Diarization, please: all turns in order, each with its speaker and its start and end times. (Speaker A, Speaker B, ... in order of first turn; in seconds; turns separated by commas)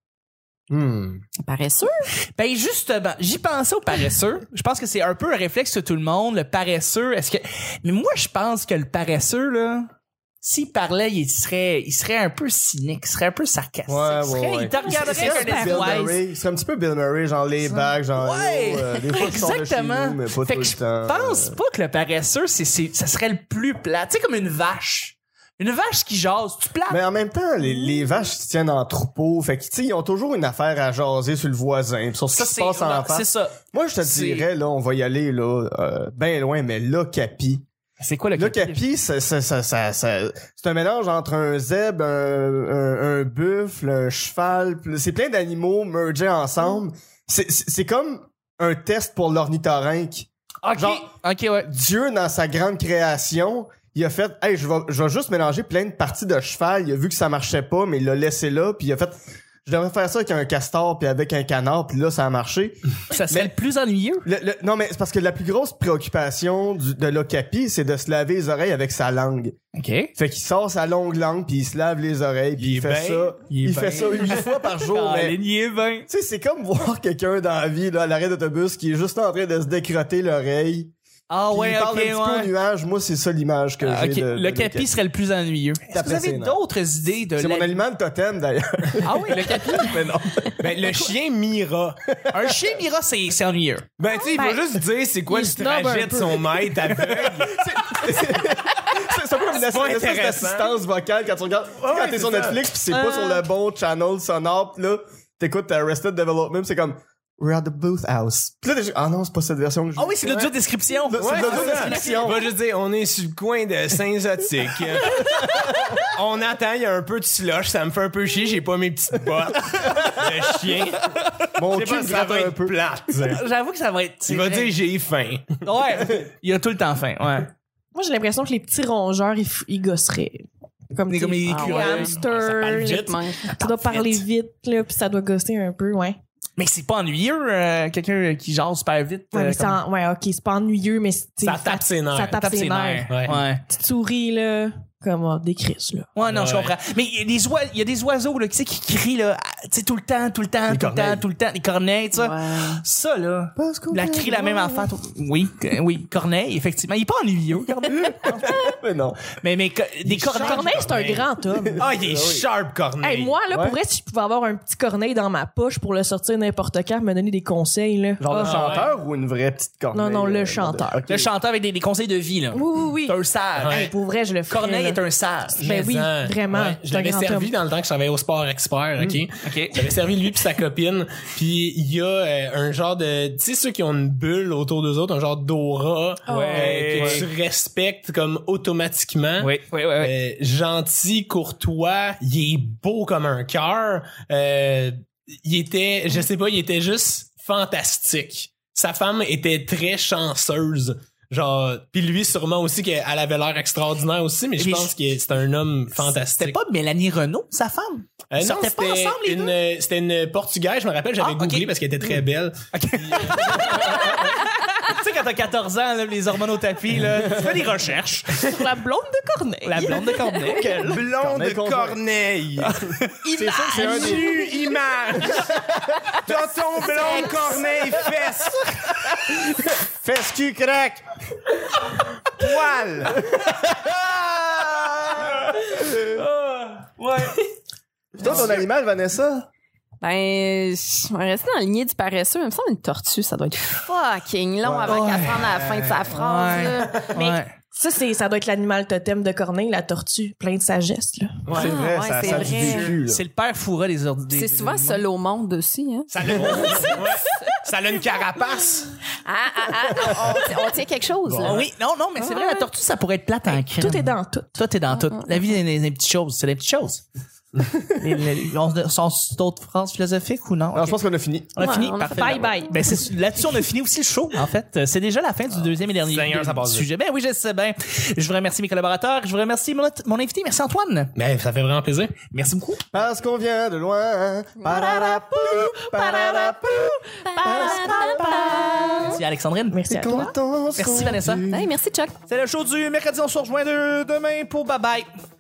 Speaker A: 0.7-1.2, Speaker B: 1.4-2.1, Speaker C: 2.3-9.9, Speaker C: 10.4-16.1, Speaker A: 13.9-21.5, Speaker D: 14.8-16.2, Speaker C: 17.6-27.0, Speaker A: 26.9-37.6, Speaker C: 27.6-27.9, Speaker C: 32.3-34.5, Speaker C: 38.0-38.8, Speaker A: 38.4-51.1, Speaker C: 50.6-51.7, Speaker A: 51.6-63.5, Speaker C: 63.1-64.2, Speaker A: 64.2-69.5, Speaker C: 69.7-70.1, Speaker A: 70.2-75.4, Speaker E: 72.6-73.3, Speaker C: 73.5-76.1, Speaker A: 76.1-80.9, Speaker C: 81.3-82.5, Speaker A: 81.5-84.9, Speaker C: 83.8-87.8, Speaker A: 85.9-86.6, Speaker A: 87.4-90.6, Speaker C: 89.0-90.1, Speaker E: 90.6-92.0, Speaker A: 92.1-92.5, Speaker C: 92.3-93.8, Speaker E: 94.0-97.8, Speaker D: 94.1-94.6, Speaker D: 95.3-96.7, Speaker A: 96.9-110.5, Speaker E: 99.5-100.8, Speaker E: 101.8-102.6, Speaker D: 102.9-103.5, Speaker C: 110.0-112.3, Speaker A: 111.1-112.5, Speaker E: 111.2-115.5, Speaker A: 115.2-116.0, Speaker E: 116.1-121.0, Speaker A: 121.6-122.7, Speaker E: 121.7-123.4, Speaker C: 123.3-124.7, Speaker E: 124.2-125.5, Speaker C: 125.6-127.5, Speaker D: 127.9-133.1, Speaker C: 131.1-132.2, Speaker B: 131.5-131.9, Speaker E: 131.9-133.2, Speaker B: 132.8-133.4, Speaker C: 133.4-134.2, Speaker D: 133.6-136.2, Speaker C: 136.6-139.8, Speaker D: 139.3-143.1, Speaker E: 141.4-142.4, Speaker C: 142.4-143.6, Speaker D: 143.7-146.1, Speaker C: 146.1-158.6, Speaker E: 146.3-146.7, Speaker A: 150.7-151.2, Speaker B: 152.1-152.8, Speaker A: 153.6-154.9, Speaker A: 158.1-159.2, Speaker C: 159.4-160.8, Speaker E: 160.2-161.2, Speaker D: 160.3-161.9, Speaker A: 161.5-162.4, Speaker E: 161.8-163.4, Speaker D: 163.0-168.8, Speaker A: 163.5-163.8, Speaker A: 168.2-171.3, Speaker E: 168.4-168.9, Speaker D: 169.9-171.0, Speaker C: 171.1-173.9, Speaker D: 172.5-175.0, Speaker E: 173.6-173.9, Speaker C: 174.4-175.7, Speaker E: 175.6-206.6, Speaker D: 175.6-177.5, Speaker C: 179.4-179.9, Speaker D: 186.3-186.9, Speaker C: 186.3-187.2, Speaker C: 189.4-190.1, Speaker C: 204.6-204.9, Speaker C: 205.9-209.5, Speaker E: 208.3-213.9, Speaker C: 211.2-211.7, Speaker C: 212.7-218.4, Speaker D: 218.4-221.0, Speaker C: 219.6-221.0, Speaker E: 220.8-222.6, Speaker A: 221.2-224.4, Speaker D: 223.2-224.4, Speaker E: 223.8-225.5, Speaker A: 225.2-226.2, Speaker E: 226.2-228.6, Speaker D: 226.8-227.7, Speaker A: 227.8-228.1, Speaker A: 229.3-231.0, Speaker E: 232.4-233.1, Speaker A: 233.1-234.2, Speaker C: 236.2-237.4, Speaker A: 238.2-239.5, Speaker E: 238.2-238.5, Speaker B: 240.0-247.1, Speaker A: 244.6-246.2, Speaker C: 244.8-245.5, Speaker C: 246.2-247.5, Speaker D: 247.1-251.7, Speaker E: 251.4-251.8, Speaker A: 251.5-253.2, Speaker B: 251.6-252.5, Speaker C: 252.2-255.0, Speaker D: 252.3-252.9, Speaker B: 254.3-256.9, Speaker E: 256.1-258.9, Speaker A: 256.4-256.9, Speaker C: 256.4-256.9, Speaker B: 259.2-261.6, Speaker A: 260.1-260.4, Speaker A: 261.2-261.6, Speaker C: 261.4-267.0, Speaker D: 263.4-264.6, Speaker B: 264.9-265.4, Speaker C: 268.0-271.0, Speaker A: 270.7-271.5, Speaker C: 271.5-281.1, Speaker D: 271.6-273.0, Speaker B: 271.6-272.9, Speaker E: 276.1-276.9, Speaker E: 281.1-282.1, Speaker C: 282.3-282.8, Speaker A: 282.9-289.1, Speaker B: 284.6-285.1, Speaker C: 285.9-286.5, Speaker C: 287.2-291.4, Speaker B: 287.3-289.1, Speaker D: 289.7-290.3, Speaker A: 289.9-291.7, Speaker B: 291.5-292.1, Speaker C: 292.3-295.1